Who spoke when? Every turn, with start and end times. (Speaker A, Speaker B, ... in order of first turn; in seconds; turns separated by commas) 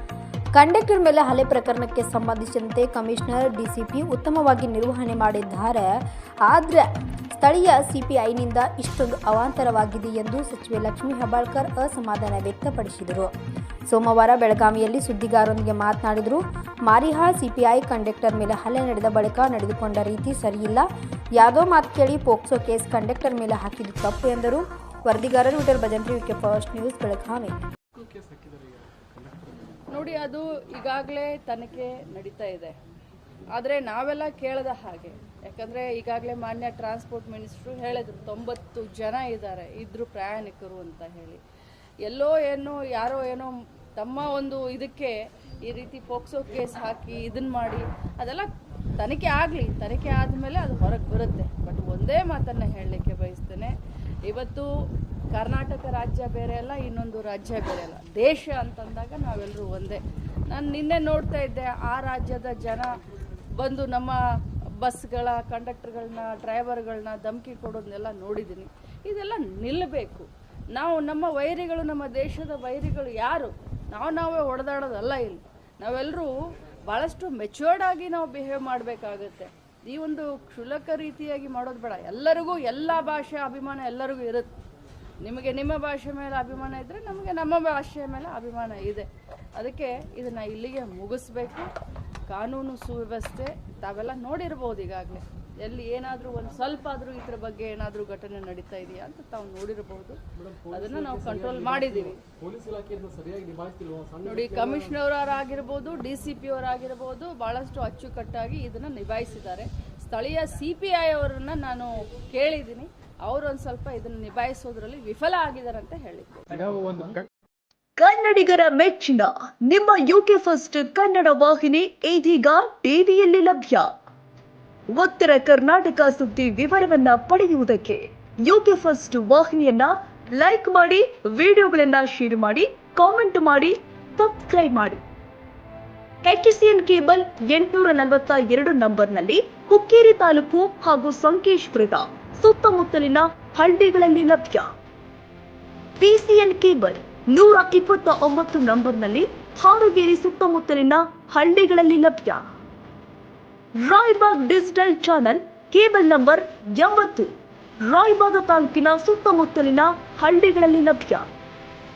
Speaker A: 0.5-13.3, Speaker A: 13.9-27.6, Speaker B: 27.9-29.5, Speaker C: 29.9-32.7, Speaker C: 33.5-41.4, Speaker C: 42.0-53.7, Speaker C: 54.2-54.7, Speaker C: 55.3-62.9, Speaker C: 63.6-64.2, Speaker C: 64.8-76.3, Speaker C: 76.9-84.5, Speaker C: 85.2-91.7, Speaker C: 92.3-102.2, Speaker B: 100.4-104.9, Speaker C: 104.2-116.7, Speaker B: 116.8-117.2, Speaker D: 118.0-123.9, Speaker D: 124.9-135.0, Speaker D: 136.2-144.7, Speaker D: 146.0-152.4, Speaker D: 153.8-157.3, Speaker D: 157.8-161.3